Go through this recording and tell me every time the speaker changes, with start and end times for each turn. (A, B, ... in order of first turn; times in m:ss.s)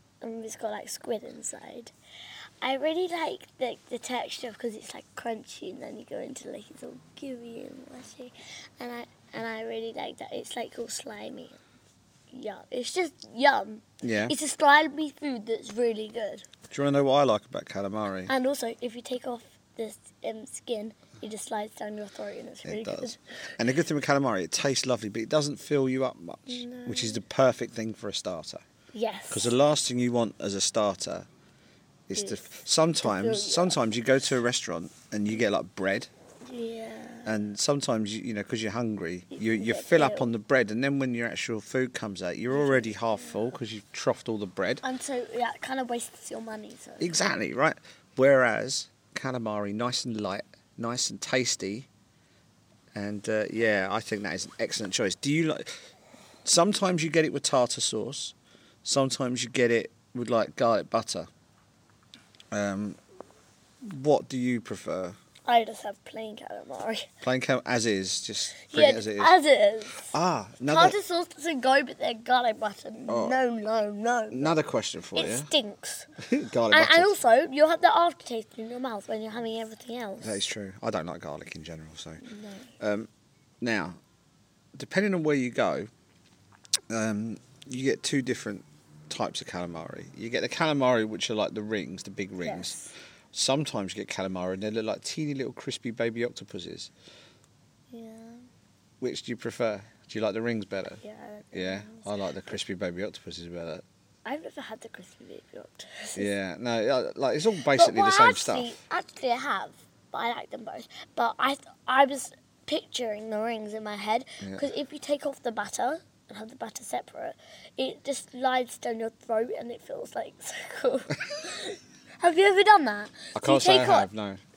0:00.2-0:01.9 A
0:02.6-0:11.6 A
0:12.3-0:16.5 A
0:14.0-0:14.3 B
0:16.7-0:18.3 B
0:18.3-0:23.5 A
0:22.6-0:28.6 B
0:26.5-0:27.2 A
0:28.9-0:29.5 A
0:29.3-0:31.3 B
0:32.1-0:36.1 B
0:32.2-0:33.8 A
0:36.5-0:37.3 A
0:37.2-0:44.8 B
0:39.3-0:40.3 A
0:42.5-0:43.4 A
0:44.8-0:47.2 A
0:47.0-0:51.9 B
0:52.9-0:55.8 B
0:56.4-1:01.3 B
1:02.5-1:03.0 B
1:03.8-1:05.2 B
1:05.5-1:07.1 A
1:07.2-1:09.4 B
1:08.7-1:10.1 A
1:10.1-1:11.0 B
1:10.7-1:14.5 A
1:13.1-1:13.4 B
1:14.3-1:15.5 B
1:15.2-1:16.1 A
1:16.2-1:17.2 B
1:16.7-1:20.4 A
1:20.2-1:22.2 B
1:22.2-1:22.7 A
1:22.8-1:23.1 B
1:23.6-1:24.0 B
1:24.8-1:25.9 B
1:26.9-1:36.9 B
1:32.4-1:32.9 A
1:37.9-1:38.4 A
1:39.0-1:41.0 B
1:41.0-1:42.1 A
1:41.5-1:43.8 B
1:44.2-1:46.3 A
1:46.2-1:48.8 B
1:47.7-2:04.1 A
2:03.4-2:04.4 B